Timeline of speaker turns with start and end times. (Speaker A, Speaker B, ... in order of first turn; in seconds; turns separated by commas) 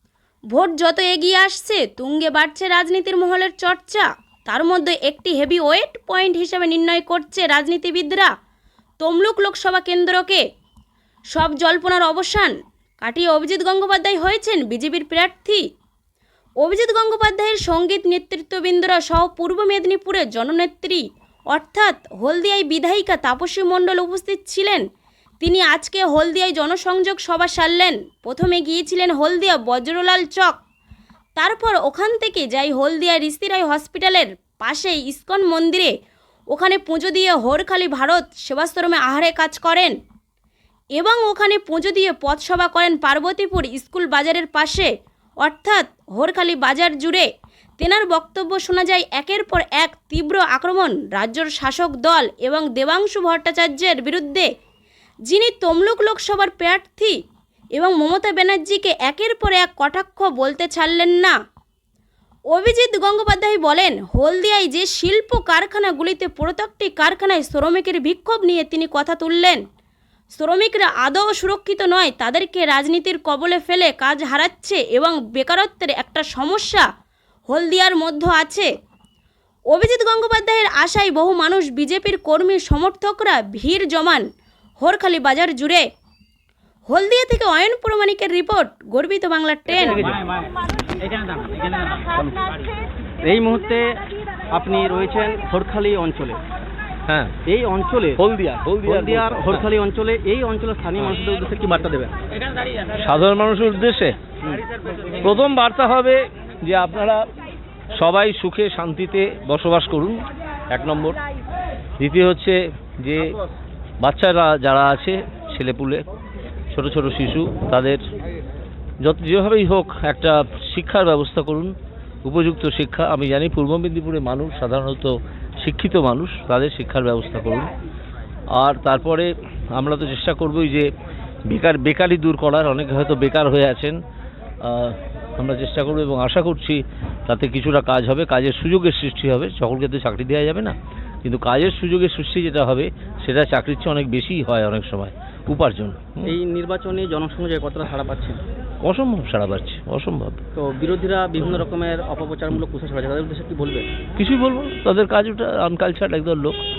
Speaker A: 0.5-8.3, Speaker A: 9.0-10.4, Speaker A: 11.3-15.6, Speaker A: 16.6-24.8, Speaker A: 25.4-30.6, Speaker A: 31.4-35.9, Speaker A: 36.5-39.9, Speaker A: 41.0-44.9, Speaker A: 45.4-47.2, Speaker A: 47.8-54.5, Speaker A: 55.3-57.2, Speaker A: 57.8-61.3, Speaker A: 62.5-69.6, Speaker A: 70.3-76.8, Speaker A: 77.5-78.7, Speaker A: 79.7-84.2, Speaker A: 84.8-85.8, Speaker A: 86.9-90.1, Speaker B: 89.9-90.2, Speaker B: 92.0-92.4, Speaker B: 93.2-94.0, Speaker B: 94.5-96.4, Speaker C: 97.1-97.4, Speaker B: 97.5-98.2, Speaker C: 98.2-99.6, Speaker B: 98.8-102.1, Speaker C: 103.0-104.1, Speaker C: 105.2-107.2, Speaker C: 108.0-110.1, Speaker C: 110.7-111.2, Speaker C: 112.0-113.3, Speaker C: 114.0-116.0, Speaker C: 116.7-118.0, Speaker C: 119.0-121.7, Speaker C: 122.2-127.7, Speaker C: 128.6-130.9, Speaker C: 131.5-133.9, Speaker C: 134.6-140.7, Speaker C: 141.2-146.3, Speaker B: 146.2-148.4, Speaker C: 148.8-150.4, Speaker B: 150.5-153.9, Speaker C: 154.2-156.6